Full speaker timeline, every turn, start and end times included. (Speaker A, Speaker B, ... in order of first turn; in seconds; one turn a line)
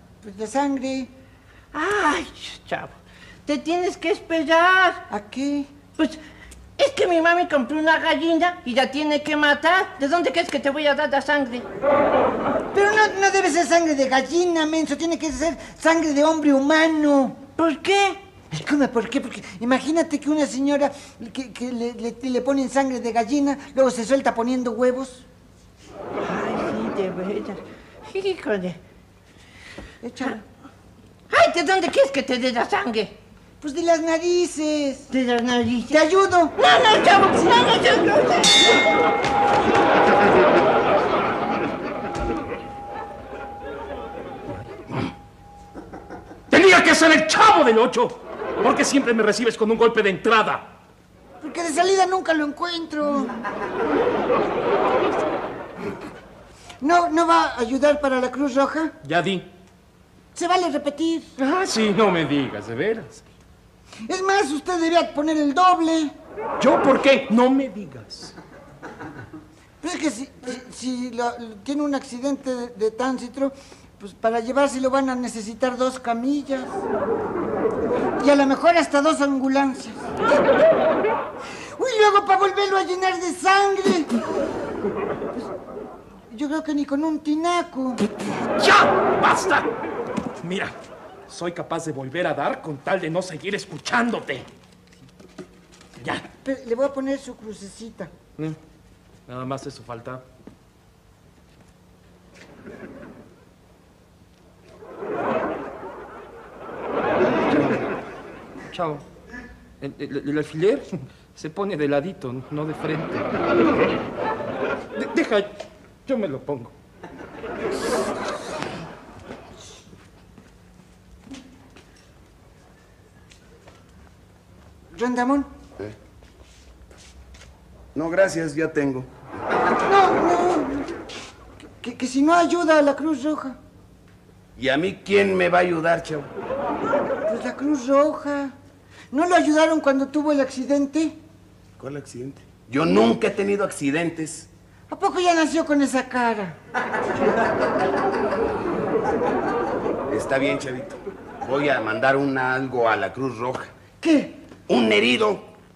Speaker A: 0.2-1.1
Speaker B: 1.7-5.0
Speaker A: 5.1-5.7
Speaker B: 6.8-11.7
Speaker A: 12.7-17.4
Speaker B: 17.6-18.2
Speaker A: 18.5-25.2
Speaker B: 26.2-28.8
Speaker A: 30.0-30.4
Speaker B: 31.3-33.2
Speaker A: 33.6-35.1
Speaker B: 35.1-36.0
Speaker A: 35.9-36.5
Speaker B: 36.5-39.0
Speaker C: 46.5-50.7
Speaker A: 51.4-53.4
Speaker A: 56.8-58.9
Speaker C: 59.0-59.5
Speaker A: 60.3-61.2
Speaker C: 61.4-63.2
Speaker A: 64.0-66.1
Speaker C: 66.6-68.3
Speaker A: 69.8-76.8
Speaker A: 78.2-80.1
Speaker A: 81.8-84.1
Speaker A: 86.3-88.0
Speaker C: 88.6-89.7
Speaker C: 90.4-90.7
Speaker C: 91.3-94.5
Speaker A: 96.0-98.1
Speaker C: 99.3-100.2
Speaker C: 107.5-107.8
Speaker C: 108.7-109.0
Speaker C: 109.8-113.2
Speaker C: 115.0-115.5
Speaker C: 116.0-116.7
Speaker A: 124.9-125.5
Speaker D: 127.9-129.1
Speaker A: 129.8-130.9
Speaker A: 131.8-133.6
Speaker D: 134.6-136.3
Speaker A: 137.2-138.5
Speaker A: 139.1-141.2
Speaker D: 141.8-144.5
Speaker A: 144.9-146.6
Speaker D: 150.1-153.7
Speaker A: 154.0-154.3
Speaker D: 154.7-155.5